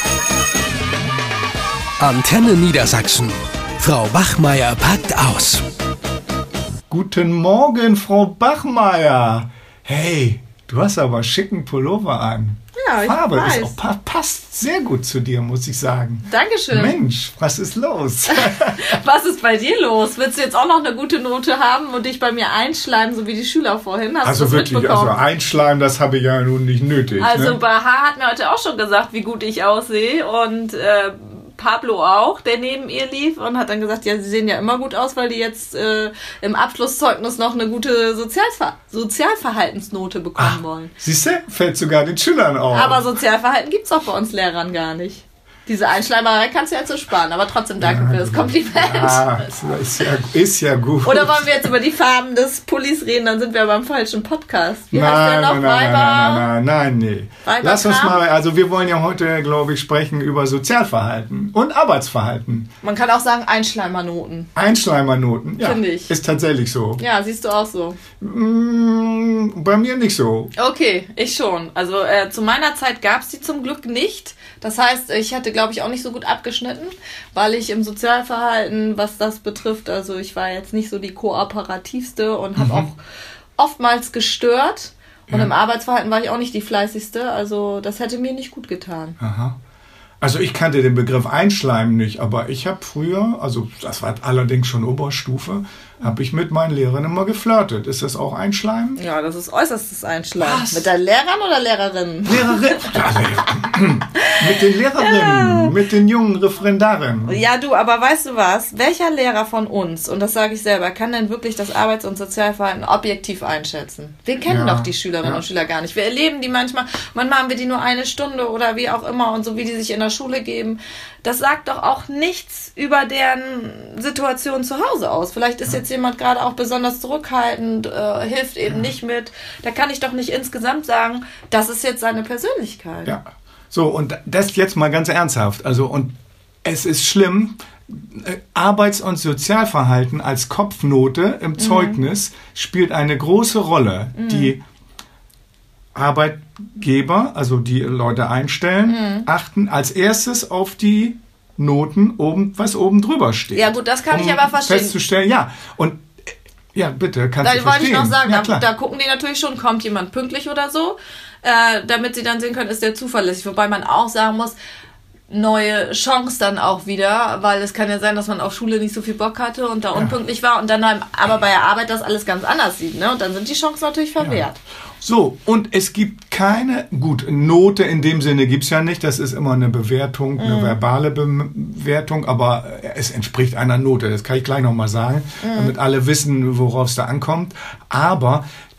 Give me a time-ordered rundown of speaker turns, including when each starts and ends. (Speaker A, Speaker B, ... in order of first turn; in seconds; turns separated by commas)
Speaker A: 2.0-5.6, Speaker B: 6.9-19.0, Speaker C: 12.8-13.8, Speaker C: 16.2-17.0, Speaker C: 18.3-25.2, Speaker B: 24.2-27.6, Speaker C: 27.2-40.9, Speaker B: 40.4-43.0, Speaker C: 42.7-49.8, Speaker B: 47.8-51.7, Speaker C: 51.0-56.5, Speaker B: 54.9-62.7, Speaker C: 57.5-58.2, Speaker C: 62.8-64.5, Speaker B: 64.5-67.0, Speaker C: 65.6-66.1, Speaker C: 67.0-68.0, Speaker B: 68.2-70.5, Speaker C: 70.6-83.0, Speaker B: 82.6-82.9, Speaker C: 83.6-89.2, Speaker B: 85.3-85.5, Speaker B: 89.2-89.6, Speaker B: 90.2-99.0, Speaker C: 99.0-103.1, Speaker B: 100.4-100.9, Speaker B: 102.3-107.4, Speaker C: 105.0-105.7, Speaker C: 107.3-133.1, Speaker B: 114.5-115.4, Speaker B: 133.1-136.1, Speaker B: 136.6-144.6, Speaker C: 141.6-142.0, Speaker C: 144.2-144.6, Speaker B: 145.9-156.1, Speaker C: 148.9-149.3, Speaker C: 153.6-155.0, Speaker B: 156.7-158.7, Speaker C: 157.4-164.6, Speaker C: 165.3-174.6, Speaker B: 169.9-170.2, Speaker B: 174.2-174.5, Speaker B: 175.0-188.4, Speaker C: 180.4-180.8, Speaker C: 185.4-185.8